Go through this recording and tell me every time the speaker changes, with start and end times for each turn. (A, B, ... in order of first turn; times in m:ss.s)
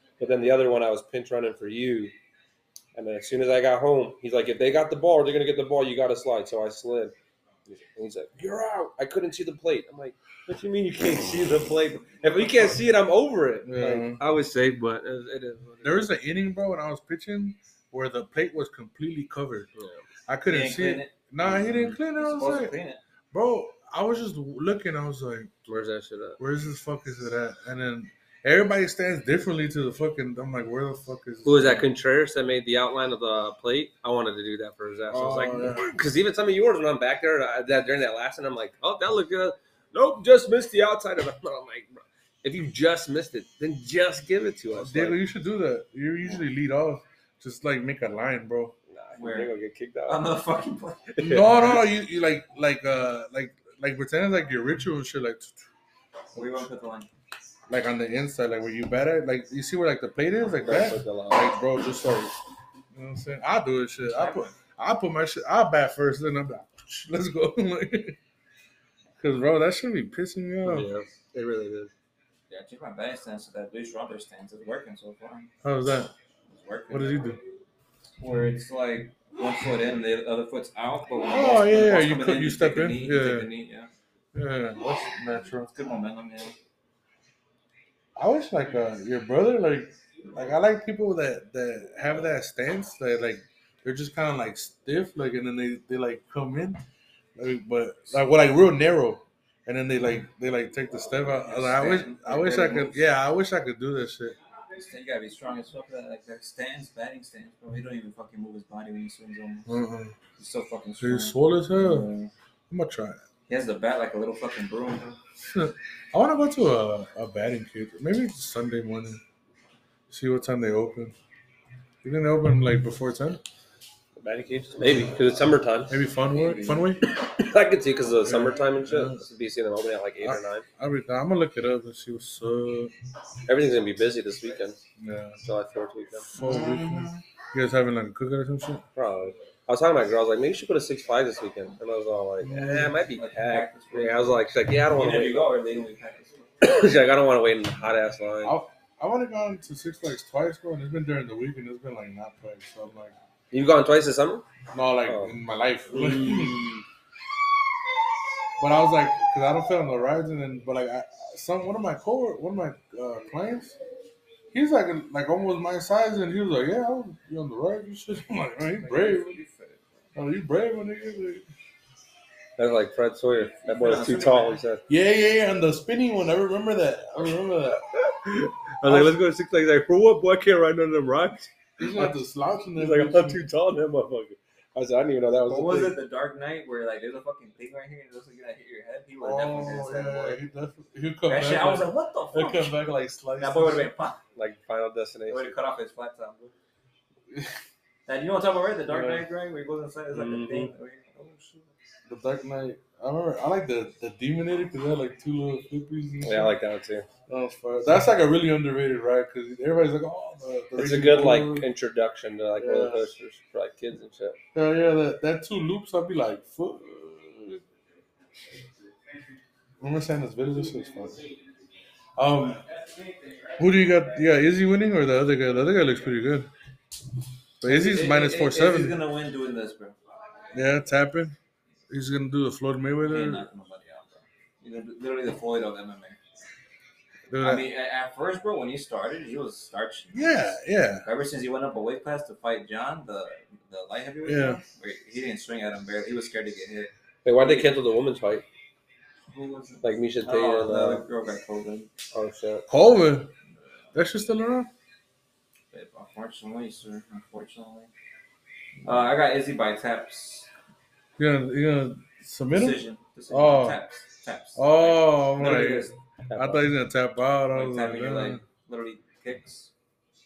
0:00.2-0:02.1 A
0:03.0-0:07.2 A
0:07.7-0:16.1 A
0:13.7-0:14.2 B
0:15.8-0:19.7 B
0:19.8-0:20.0 A
0:20.3-0:22.7 B
0:20.5-0:23.0 C
0:23.3-0:25.5 B
0:25.7-0:26.4 A
0:26.4-0:31.9 B
0:31.4-0:45.2 A
0:35.1-0:35.9 B
0:44.7-0:48.8 B
0:48.9-0:50.3 A
0:49.2-0:49.5 C
0:50.1-0:51.2 C
0:51.2-0:51.8 A
0:51.2-0:55.7 B
0:56.4-0:57.1 C
0:56.4-0:56.6 B
0:57.7-1:02.4 B
1:00.6-1:01.5 A
1:02.9-1:08.2 B
1:04.1-1:04.5 C
1:09.2-1:10.9 B
1:10.6-1:11.9 A
1:12.5-1:15.5 C
1:15.6-1:16.1 B
1:16.5-1:17.3 C
1:16.9-1:17.4 B
1:18.2-1:23.9 C
1:21.3-1:23.5 B
1:24.3-1:25.7 B
1:25.7-1:26.6 C
1:28.2-1:36.8 B
1:37.4-1:44.4 B
1:41.3-1:43.0 C
1:44.8-1:49.7 C
1:49.7-1:50.2 B
1:50.4-1:52.3 C
1:51.0-1:52.1 B
1:52.7-1:53.2 B
1:53.5-1:55.2 C
1:55.4-1:59.2 B
2:00.1-2:01.2 B
2:02.0-2:03.4 B
2:04.2-2:06.0 A
2:05.9-2:07.0 B
2:06.3-2:07.0 C
2:07.1-2:10.7 A
2:08.2-2:09.2 B
2:10.2-2:12.9 B
2:13.5-2:14.8 A
2:15.0-2:15.4 B
2:15.4-2:16.3 A
2:16.3-2:17.2 C
2:16.3-2:18.8 B
2:19.0-2:25.8 A
2:22.4-2:23.0 B
2:23.2-2:26.5 C
2:26.6-2:28.6 A
2:28.4-2:33.1 B
2:33.5-2:34.4 A
2:34.7-2:36.7 B
2:35.1-2:35.4 A
2:35.9-2:36.8 A
2:38.6-2:43.8 B
2:44.5-2:49.4 B
2:48.8-2:50.1 C
2:50.2-2:51.5 B
2:52.6-2:54.8 A
2:53.5-2:54.6 C
2:54.9-2:57.9 B
2:58.0-3:02.2 A
2:58.8-2:59.2 B
3:01.8-3:03.4 B
3:02.8-3:06.0 A
3:05.5-3:10.4 C
3:09.2-3:13.9 B
3:11.3-3:14.2 C
3:14.4-3:15.5 A
3:15.3-3:16.5 C
3:18.1-3:21.7 C
3:18.9-3:19.3 B
3:20.1-3:20.7 A
3:22.1-3:26.6 B
3:26.2-3:27.1 A
3:27.3-3:31.7 B
3:30.8-3:34.4 A
3:32.6-3:33.1 B
3:34.5-3:37.6 B
3:39.8-3:41.2 B
3:42.2-3:42.6 B
3:43.6-3:46.5 B
3:47.6-3:49.0 B
3:47.6-3:50.0 C
3:50.5-3:51.4 B
3:51.9-3:53.5 B
3:53.0-3:56.2 C
3:57.3-3:57.6 B
3:57.4-4:07.7 C
4:00.1-4:01.1 B
4:04.2-4:04.6 B
4:07.2-4:08.4 A
4:09.3-4:11.9 C
4:09.8-4:11.0 A
4:12.1-4:12.7 A
4:12.7-4:13.3 B
4:14.0-4:14.7 B
4:15.7-4:17.9 C
4:18.8-4:20.5 C
4:21.2-4:23.8 B
4:22.5-4:26.0 C
4:24.6-4:28.4 B
4:26.3-4:26.7 A
4:27.5-4:29.7 C